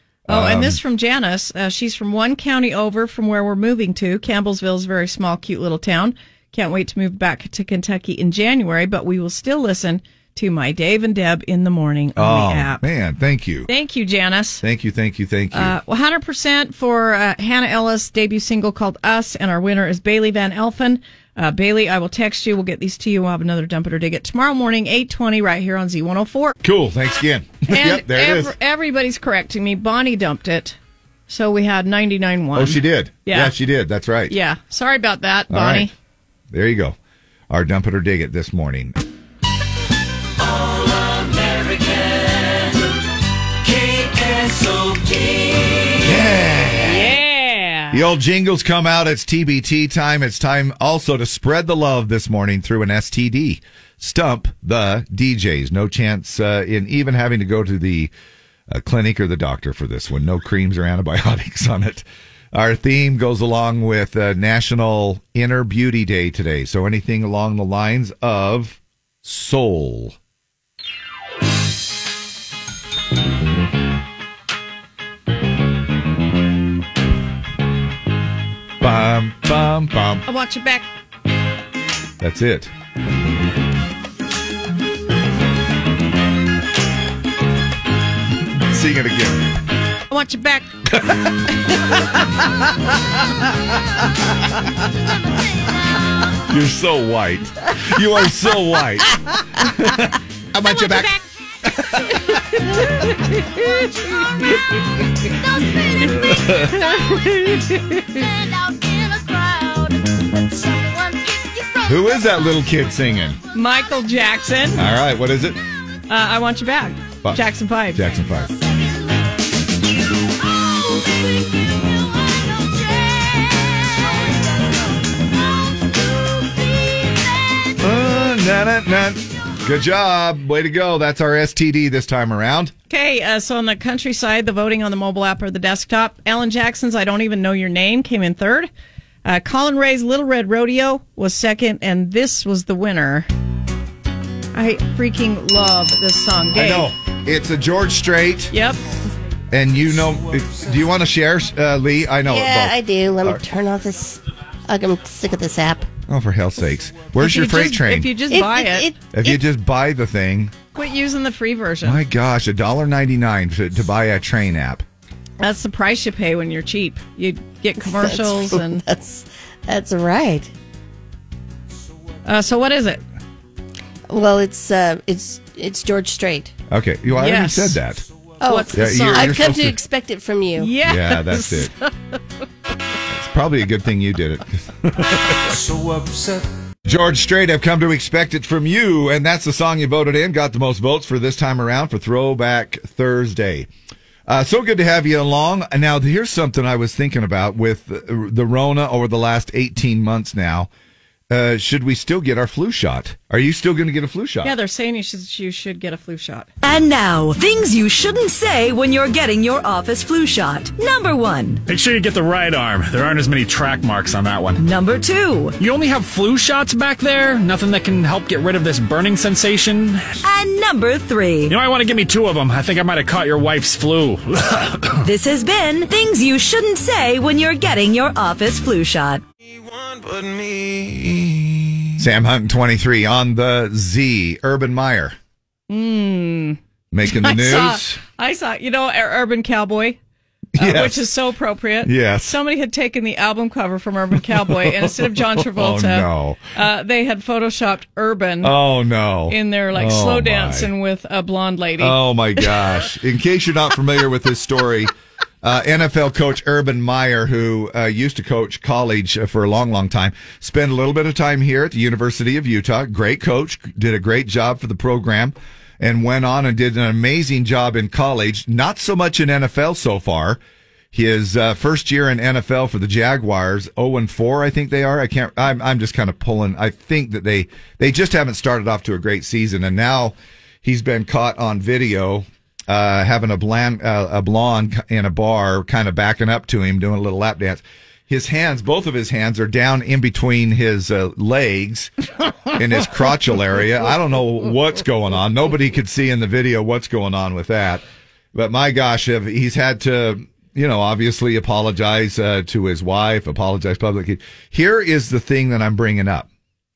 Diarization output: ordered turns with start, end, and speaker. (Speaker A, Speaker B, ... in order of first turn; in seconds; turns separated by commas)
Speaker A: 0.3-0.8, Speaker B: 0.3-12.8, Speaker A: 12.2-13.7, Speaker B: 13.7-14.6, Speaker A: 14.6-15.7, Speaker B: 15.5-26.5, Speaker A: 26.6-28.5, Speaker B: 27.7-30.8, Speaker B: 31.3-33.5, Speaker A: 32.5-34.3, Speaker B: 34.3-35.9, Speaker A: 35.5-35.9, Speaker A: 36.5-37.0, Speaker A: 37.5-39.0, Speaker A: 46.0-47.1, Speaker B: 46.8-48.0, Speaker A: 47.9-58.1, Speaker A: 58.7-70.2, Speaker A: 78.8-80.2, Speaker B: 80.2-80.9, Speaker A: 82.2-82.7, Speaker A: 88.6-89.4, Speaker B: 90.1-90.7, Speaker A: 96.5-101.1, Speaker A: 101.7-102.4, Speaker A: 106.1-106.8, Speaker B: 106.9-108.2, Speaker A: 111.8-113.4, Speaker B: 113.5-114.8, Speaker A: 114.7-115.6, Speaker B: 116.1-118.0, Speaker A: 117.9-118.5, Speaker A: 127.8-132.7, Speaker B: 132.9-138.7, Speaker B: 139.2-143.3, Speaker B: 144.5-146.9, Speaker A: 146.5-148.5, Speaker B: 148.5-148.8, Speaker A: 149.5-153.4, Speaker C: 152.2-155.9, Speaker A: 156.1-158.1, Speaker B: 157.2-158.9, Speaker C: 158.3-159.4, Speaker A: 159.1-160.5, Speaker B: 160.7-162.0, Speaker A: 161.8-164.8, Speaker B: 165.4-168.8, Speaker C: 167.8-170.5, Speaker B: 172.2-173.0, Speaker C: 174.1-176.5, Speaker A: 176.7-178.0, Speaker B: 177.1-177.8, Speaker C: 178.4-180.7, Speaker B: 178.4-179.4, Speaker A: 178.7-179.8, Speaker B: 180.6-181.9, Speaker A: 180.8-181.7, Speaker A: 183.1-185.6, Speaker A: 186.9-193.7, Speaker A: 194.3-200.7, Speaker A: 201.3-204.5, Speaker B: 204.4-206.5, Speaker D: 206.6-211.6, Speaker E: 211.7-214.6, Speaker D: 214.6-215.5, Speaker E: 215.6-220.1, Speaker D: 220.2-221.5, Speaker E: 221.4-225.0, Speaker D: 225.0-229.2, Speaker A: 232.0-235.1, Speaker B: 235.7-240.0, Speaker A: 236.9-238.0, Speaker A: 240.6-241.1, Speaker B: 240.6-248.6, Speaker A: 241.8-242.3, Speaker A: 244.5-246.5, Speaker A: 248.4-250.7, Speaker B: 249.3-252.6, Speaker A: 251.8-270.4, Speaker A: 270.9-291.9, Speaker A: 292.5-297.8, Speaker A: 298.3-306.3